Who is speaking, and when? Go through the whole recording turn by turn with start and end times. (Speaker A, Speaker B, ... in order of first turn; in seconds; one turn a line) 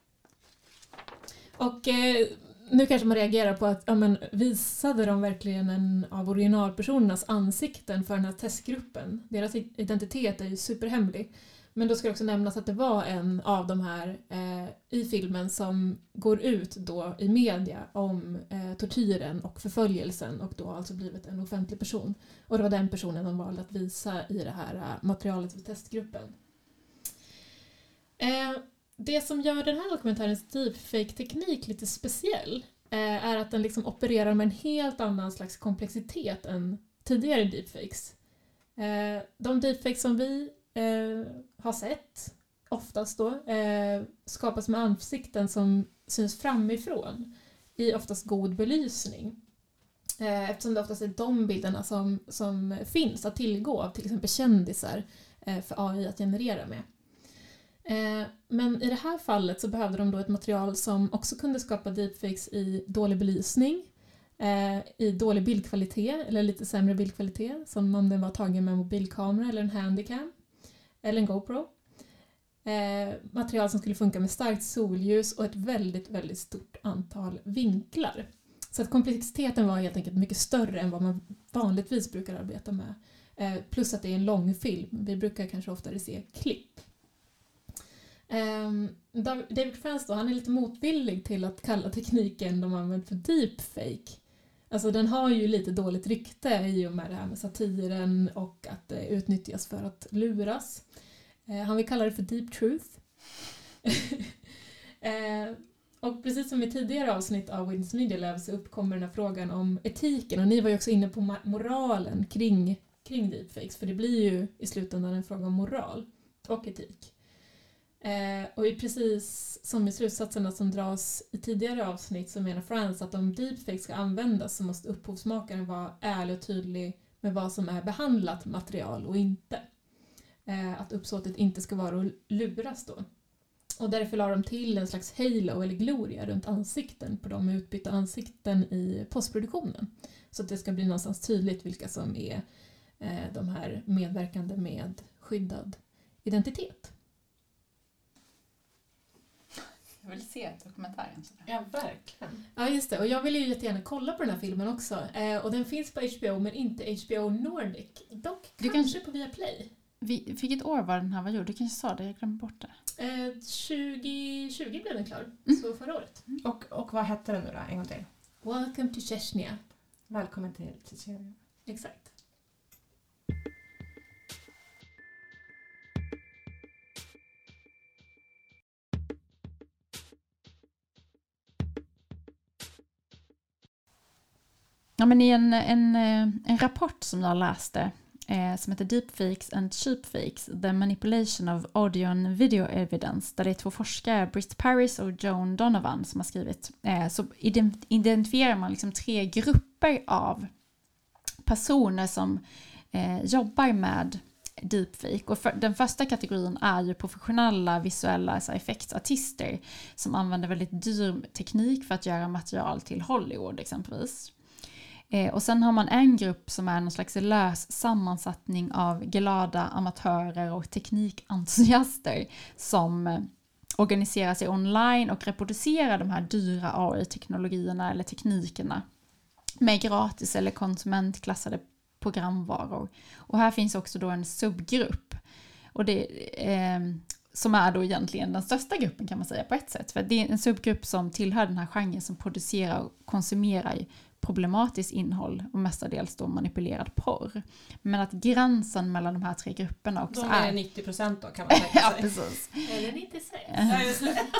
Speaker A: 1.6-26.4
Speaker A: 28.2-38.1
Speaker A: 38.8-49.4
Speaker A: 50.2-56.9
Speaker A: 57.8-70.3
Speaker A: 71.0-71.7
Speaker A: 72.6-86.8
Speaker A: 88.3-100.8
Speaker A: 101.5-103.0
Speaker A: 103.8-104.3
Speaker A: 105.0-117.1
Speaker A: 118.0-129.6
Speaker A: 130.4-133.0
Speaker A: 133.8-142.4
Speaker A: 143.0-146.9
Speaker B: 150.0-151.5
Speaker C: 151.4-152.4
Speaker A: 152.5-159.7
Speaker B: 158.6-158.9
Speaker B: 160.0-162.7
Speaker A: 163.0-166.2
Speaker C: 166.4-168.1
Speaker A: 168.4-169.6
Speaker C: 170.1-171.3
Speaker A: 171.7-172.1
Speaker B: 185.0-200.5
Speaker B: 201.4-202.4
Speaker B: 202.9-214.3
Speaker B: 215.1-228.8
Speaker B: 229.6-235.2
Speaker B: 235.7-250.5
Speaker C: 250.1-252.1
Speaker B: 251.5-252.7
Speaker A: 252.6-254.2
Speaker B: 253.5-253.9
Speaker C: 253.7-254.2